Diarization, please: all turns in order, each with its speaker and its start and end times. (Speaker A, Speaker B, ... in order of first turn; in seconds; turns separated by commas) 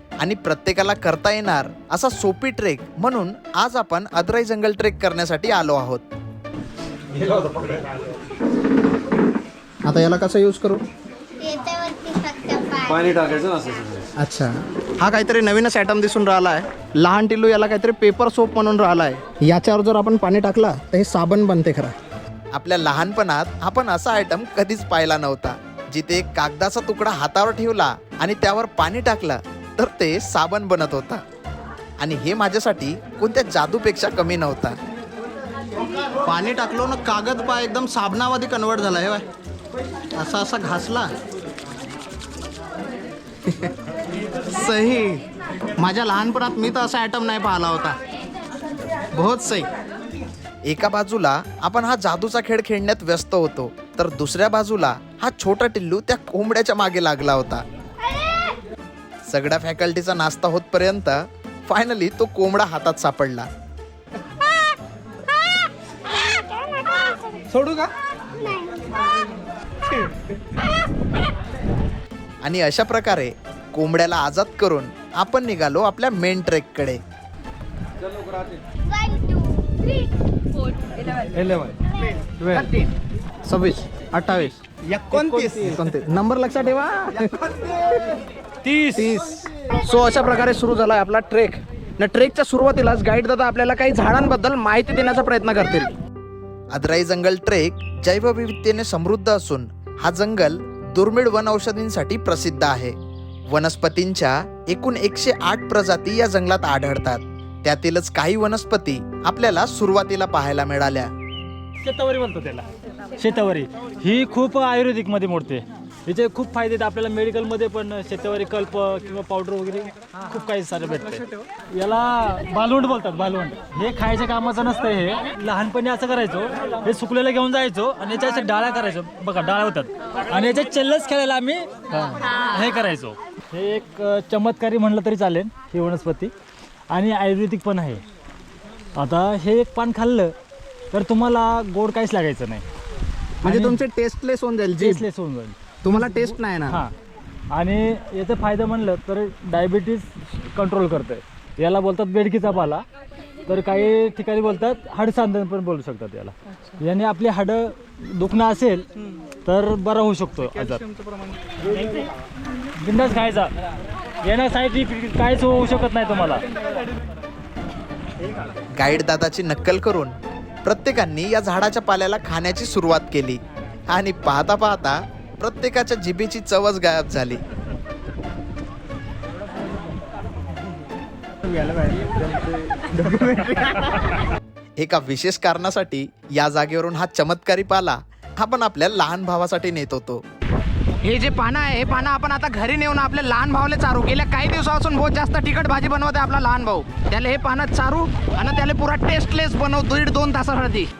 Speaker A: 0.2-6.1, Speaker B: 7.2-7.8, Speaker C: 9.8-10.8, Speaker D: 11.4-13.4, Speaker B: 12.9-14.1, Speaker C: 14.2-21.9, Speaker A: 22.5-31.2, Speaker A: 32.0-34.8, Speaker C: 36.2-39.2, Speaker C: 40.2-41.1, Speaker C: 43.5-43.7, Speaker C: 44.5-45.2, Speaker C: 45.8-48.0, Speaker C: 49.1-49.7, Speaker A: 50.6-57.6, Speaker A: 59.3-63.5, Speaker D: 66.2-67.2, Speaker C: 67.5-67.9, Speaker D: 68.4-68.8, Speaker A: 72.4-77.0, Speaker D: 78.9-80.0, Speaker B: 81.3-81.7, Speaker C: 82.4-82.9, Speaker C: 83.5-88.2, Speaker A: 84.9-85.7, Speaker C: 88.9-95.9, Speaker A: 96.7-103.0, Speaker A: 103.5-111.1, Speaker E: 111.8-136.3, Speaker E: 136.9-138.0, Speaker E: 139.0-140.3, Speaker E: 140.9-142.7, Speaker E: 143.4-143.8, Speaker C: 143.4-145.0, Speaker E: 144.8-146.9, Speaker C: 145.8-146.8, Speaker E: 147.5-152.8, Speaker E: 153.5-158.9, Speaker E: 159.4-160.8, Speaker E: 162.8-163.5, Speaker E: 164.2-166.4, Speaker A: 168.7-177.4, Speaker C: 182.9-183.8, Speaker A: 184.8-190.2, Speaker C: 191.0-200.9